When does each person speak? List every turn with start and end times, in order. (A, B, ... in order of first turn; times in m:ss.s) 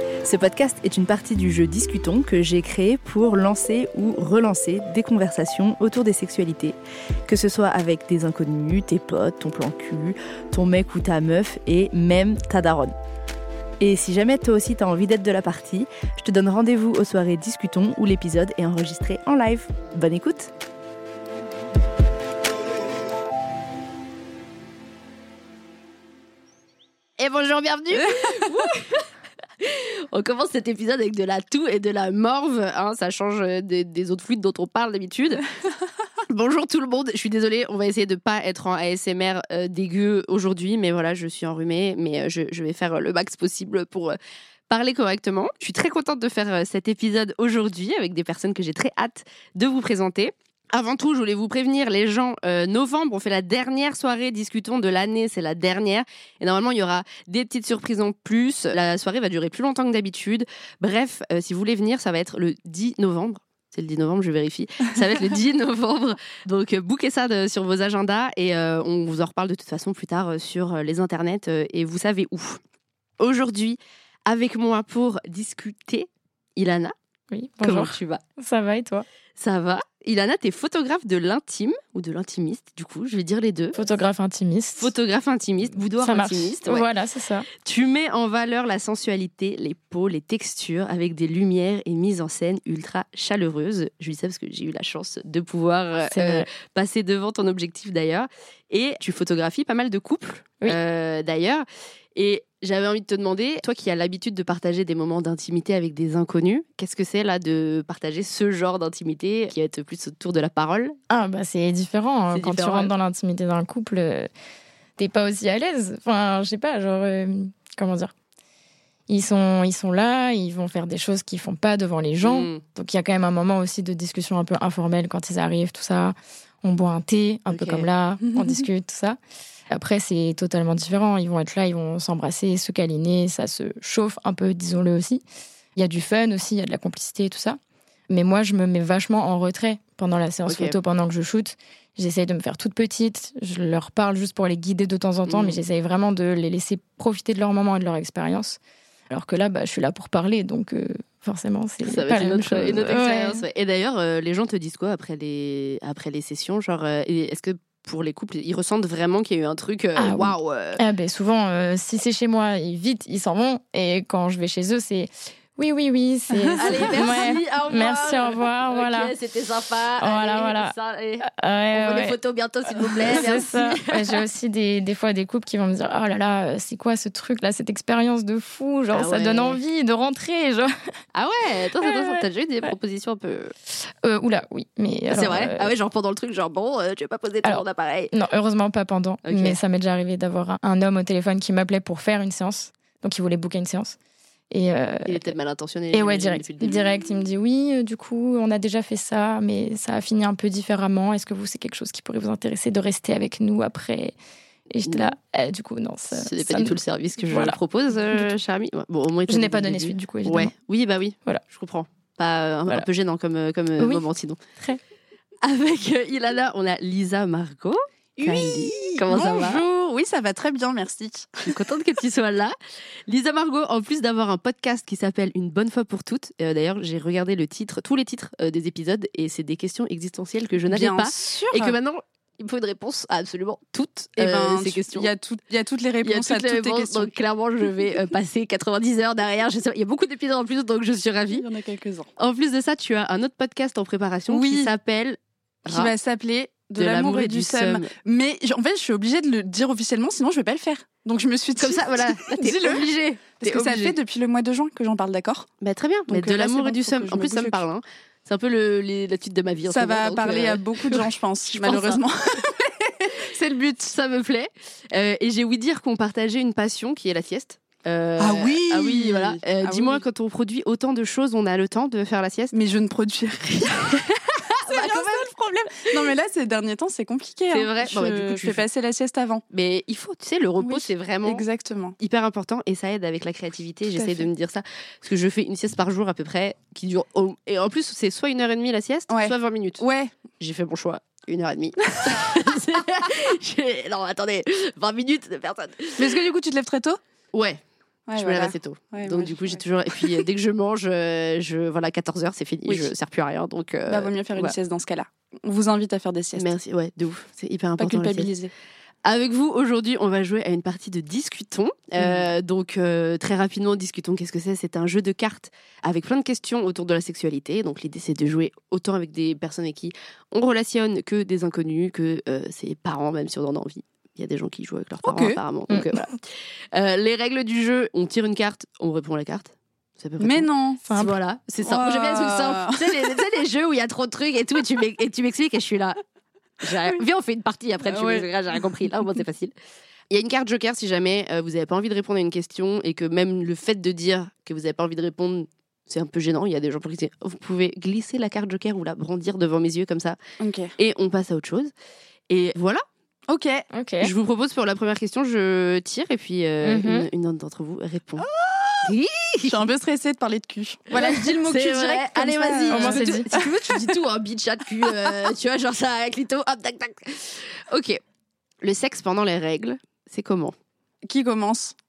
0:00.2-0:12.9 A
0:13.8-0:20.5 A
0:27.2-0:29.1 B
0:29.6-0:35.4 B
0:36.3-0:44.2 B
0:44.7-1:12.6 B
1:13.2-1:16.9 B
1:17.3-1:19.1 C
1:17.6-1:18.2 B
1:19.4-1:23.8 B
1:23.7-1:24.9 C
1:24.8-1:26.9 B
1:26.0-1:27.5 C
1:27.6-1:51.0 B
1:36.1-1:36.5 C
1:51.1-1:54.3 C
1:52.3-1:52.9 B
1:55.0-1:58.1 C
1:59.1-2:09.2 C
2:02.2-2:02.6 B
2:07.5-2:07.9 B
2:08.2-2:08.7 D
2:09.7-2:15.2 C
2:15.8-2:17.6 C
2:18.1-2:28.6 C
2:20.5-2:20.8 B
2:25.3-2:25.6 B
2:29.1-2:33.4 C
2:31.8-2:40.8 B
2:40.0-2:49.1 C
2:46.3-2:46.8 D
2:46.6-2:54.2 B
2:50.0-2:52.2 C
2:53.0-3:00.7 C
2:58.9-2:59.6 B
3:01.1-3:03.5 B
3:01.8-3:02.2 C
3:03.8-3:05.7 C
3:05.1-3:08.1 B
3:07.4-3:14.0 C
3:09.3-3:09.6 B
3:14.5-3:15.3 C
3:15.1-3:16.9 B
3:15.9-3:24.2 C
3:24.7-3:27.6 C
3:24.9-3:25.1 B
3:26.1-3:34.4 B
3:29.3-3:30.5 C
3:33.8-3:34.0 C
3:35.4-3:39.6 B
3:38.2-3:41.7 D
3:41.5-3:42.6 B
3:43.1-3:55.1 B
3:50.6-3:51.8 D
3:54.2-3:57.1 D
3:56.0-4:01.5 B
4:01.3-4:02.1 D
4:02.2-4:05.9 B
4:04.3-4:04.7 D
4:05.6-4:15.5 D
4:06.8-4:07.9 B
4:11.6-4:14.0 B
4:15.6-4:22.0 B
4:16.1-4:17.6 D
4:19.7-4:23.8 D
4:23.8-4:32.6 B
4:28.2-4:30.0 D
4:32.5-4:39.4 D
4:34.6-4:36.1 B
4:37.5-4:38.6 B
4:39.5-4:41.4 B
4:40.6-4:42.0 D
4:42.0-4:49.8 B
4:43.9-4:44.3 D
4:49.1-4:50.2 D
4:50.4-4:56.2 B
4:51.9-4:52.3 D
4:56.0-4:57.0 D
4:57.3-4:57.6 B
4:58.1-5:00.2 D
4:58.2-5:04.6 B
5:03.9-5:06.5 D
5:06.4-5:08.3 B
5:07.8-5:08.5 D
5:09.0-5:26.2 B
5:25.0-5:25.4 D
5:26.7-5:36.0 B
5:30.2-5:30.8 D
5:30.9-5:31.2 C
5:31.6-5:33.1 D
5:36.6-5:39.5 B
5:37.8-5:38.3 D
5:40.1-5:50.2 B
5:50.4-5:50.7 D
5:50.8-5:51.7 B
5:52.3-5:52.8 B
5:53.3-5:53.6 D
5:53.7-5:54.1 C
5:54.0-5:58.3 B
5:56.6-5:57.1 C
5:58.3-5:58.9 D
5:58.8-5:59.7 B
5:59.4-6:04.0 D
6:00.9-6:08.0 B
6:02.7-6:03.3 C
6:08.6-6:10.5 B
6:11.0-6:11.8 D